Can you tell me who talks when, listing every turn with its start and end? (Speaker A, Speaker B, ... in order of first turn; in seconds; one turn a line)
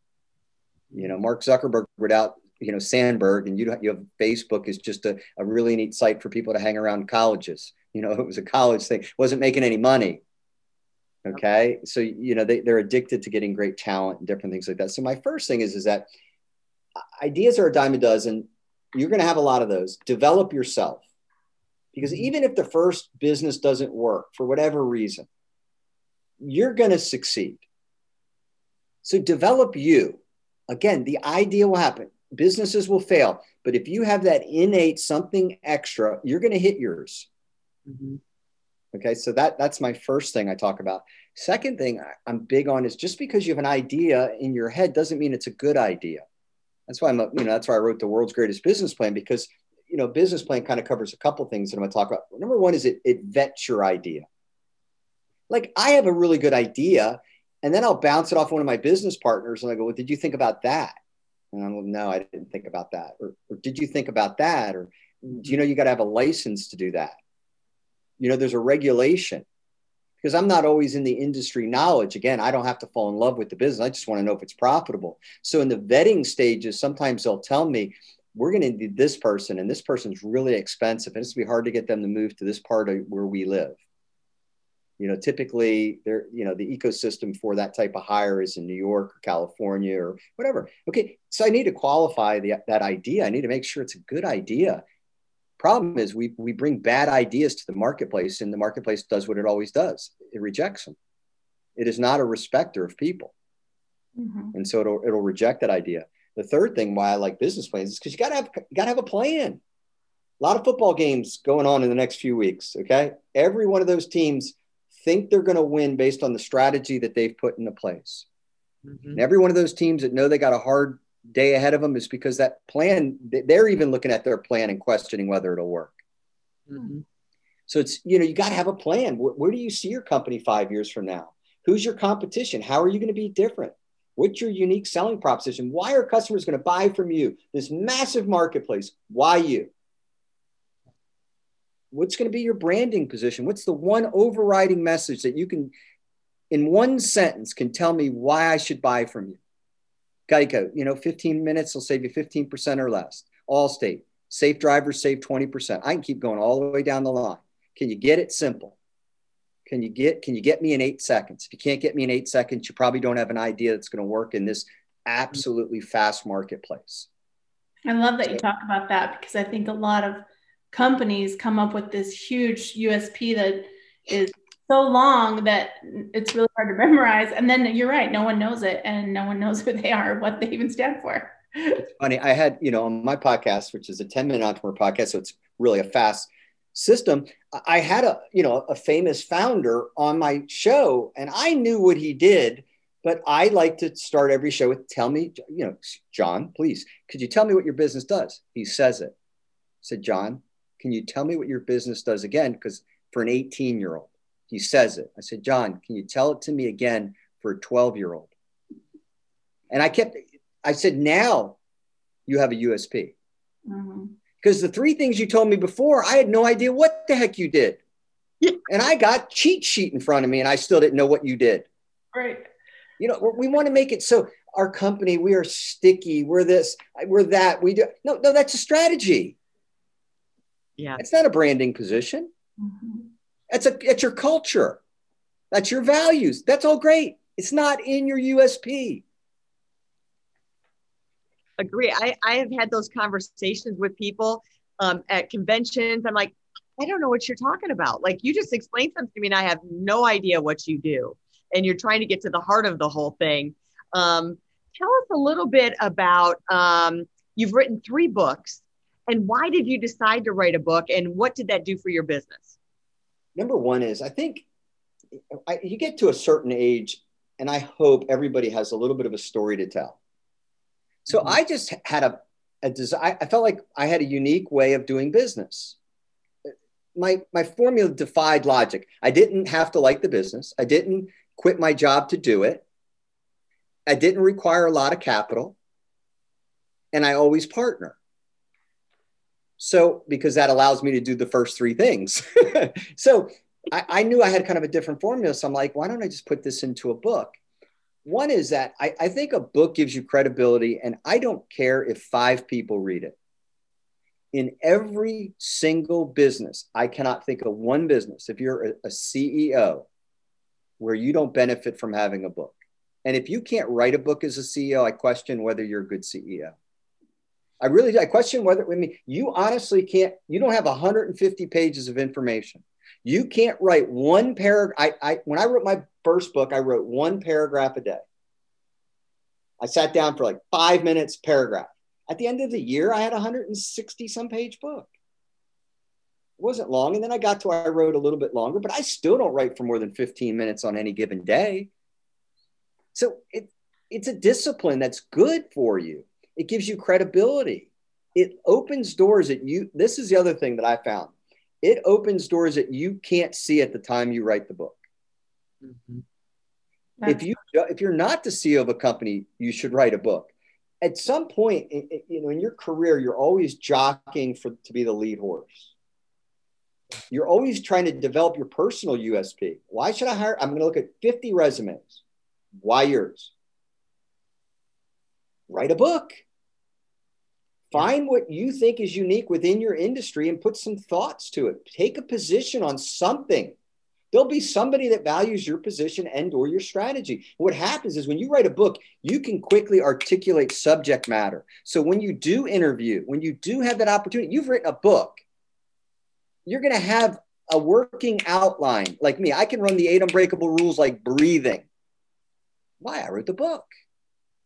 Speaker A: 0.9-10.2
Speaker A: 11.3-16.1
Speaker A: 17.1-21.0
Speaker A: 21.9-25.3
Speaker A: 26.4-27.6
Speaker A: 29.0-37.3
Speaker B: 37.9-38.2
Speaker A: 38.9-46.2
Speaker A: 46.9-54.3
Speaker A: 55.5-61.0
Speaker A: 61.5-67.2
Speaker A: 68.2-69.5
Speaker A: 70.2-83.8
Speaker A: 85.0-94.8
Speaker A: 95.6-101.0
Speaker A: 101.8-103.3
Speaker C: 104.2-104.5
Speaker A: 104.5-109.6
Speaker A: 110.4-118.3
Speaker B: 118.9-119.2
Speaker A: 119.2-126.0
Speaker B: 126.7-127.0
Speaker A: 127.7-139.7
Speaker A: 141.9-145.7
Speaker A: 146.5-149.4
Speaker A: 150.3-158.8
Speaker A: 159.7-167.1
Speaker C: 167.9-181.8
Speaker A: 181.9-199.2
Speaker A: 199.8-208.3
Speaker A: 209.7-211.6
Speaker A: 212.3-213.1
Speaker C: 213.7-214.2
Speaker A: 214.4-217.8
Speaker A: 218.7-221.7
Speaker C: 222.1-222.5
Speaker A: 223.0-229.4
Speaker A: 231.0-232.3
Speaker C: 232.6-233.1
Speaker A: 233.5-234.8
Speaker A: 235.5-239.0
Speaker B: 241.6-262.6
Speaker A: 263.4-264.4
Speaker A: 265.4-270.0
Speaker A: 271.1-275.8
Speaker B: 271.1-271.4
Speaker A: 276.9-282.6
Speaker A: 283.9-285.6
Speaker A: 286.9-288.0
Speaker A: 289.6-297.4
Speaker A: 298.1-303.1
Speaker A: 304.3-309.9
Speaker A: 310.8-316.6
Speaker A: 317.6-328.0
Speaker A: 329.6-334.9
Speaker A: 336.4-341.7
Speaker A: 342.9-354.8
Speaker B: 355.6-356.0
Speaker C: 357.0-357.2
Speaker A: 357.1-365.7
Speaker A: 367.1-372.0
Speaker A: 372.6-373.3
Speaker A: 375.5-376.2
Speaker A: 377.7-383.6
Speaker A: 384.1-395.2
Speaker A: 396.5-401.7
Speaker A: 402.8-403.7